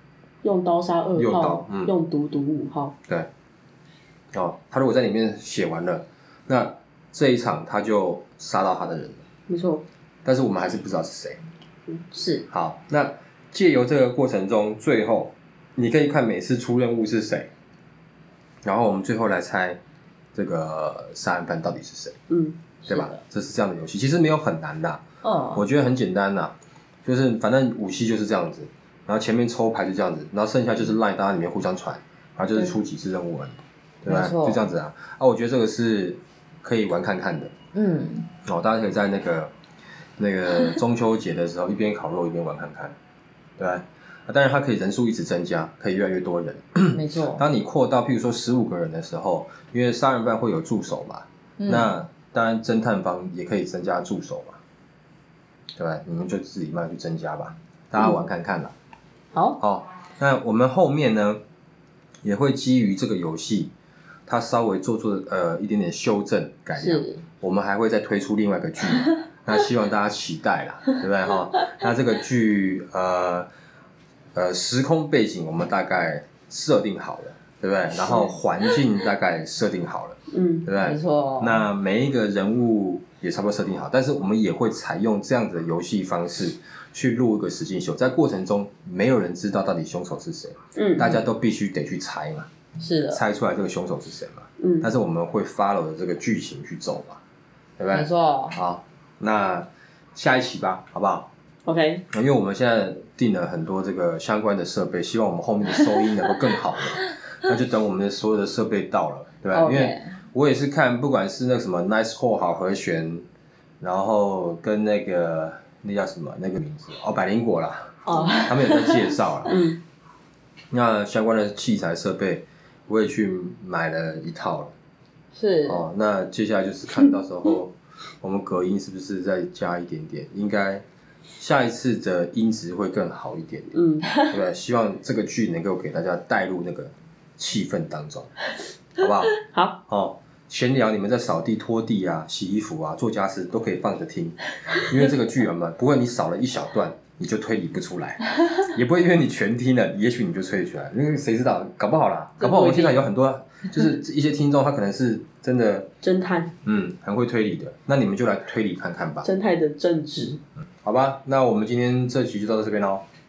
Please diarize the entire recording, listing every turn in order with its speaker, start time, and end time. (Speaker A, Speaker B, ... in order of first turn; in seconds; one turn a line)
Speaker A: 0.4-3.0
Speaker B: 1.2-1.9
Speaker B: 4.3-9.2
Speaker A: 9.5-9.8
Speaker B: 10.2-11.4
Speaker C: 12.1-12.4
Speaker B: 12.5-17.5
Speaker B: 18.6-19.8
Speaker B: 20.3-22.1
Speaker A: 22.3-22.6
Speaker B: 22.9-25.0
Speaker C: 22.9-23.2
Speaker C: 25.2-25.6
Speaker B: 25.5-26.5
Speaker B: 27.0-37.5
Speaker C: 34.1-34.6
Speaker C: 37.7-38.3
Speaker B: 38.4-39.5
Speaker B: 40.2-42.9
Speaker B: 43.6-54.6
Speaker C: 46.9-47.4
Speaker C: 51.6-51.9
Speaker B: 55.8-58.7
Speaker C: 59.3-59.6
Speaker B: 59.6-61.4
Speaker B: 62.2-63.7
Speaker B: 64.3-73.5
Speaker C: 66.8-67.2
Speaker B: 74.3-92.5
Speaker A: 80.3-80.7
Speaker C: 80.8-81.6
Speaker A: 90.8-91.1
Speaker C: 92.8-93.2
Speaker B: 93.1-97.2
Speaker A: 94.6-94.9
Speaker B: 97.8-101.3
Speaker C: 97.9-98.6
Speaker A: 101.6-102.0
Speaker B: 102.1-113.2
Speaker C: 109.5-110.1
Speaker B: 113.8-119.5
Speaker C: 118.0-119.0
Speaker A: 119.5-119.8
Speaker B: 120.7-124.7
Speaker C: 125.3-125.8
Speaker B: 125.7-130.8
Speaker B: 131.4-138.3
Speaker A: 133.7-134.1
Speaker B: 139.0-155.9
Speaker A: 139.4-139.8
Speaker A: 152.4-153.0
Speaker A: 156.0-156.5
Speaker B: 156.6-159.3
Speaker A: 159.2-160.4
Speaker B: 160.8-163.0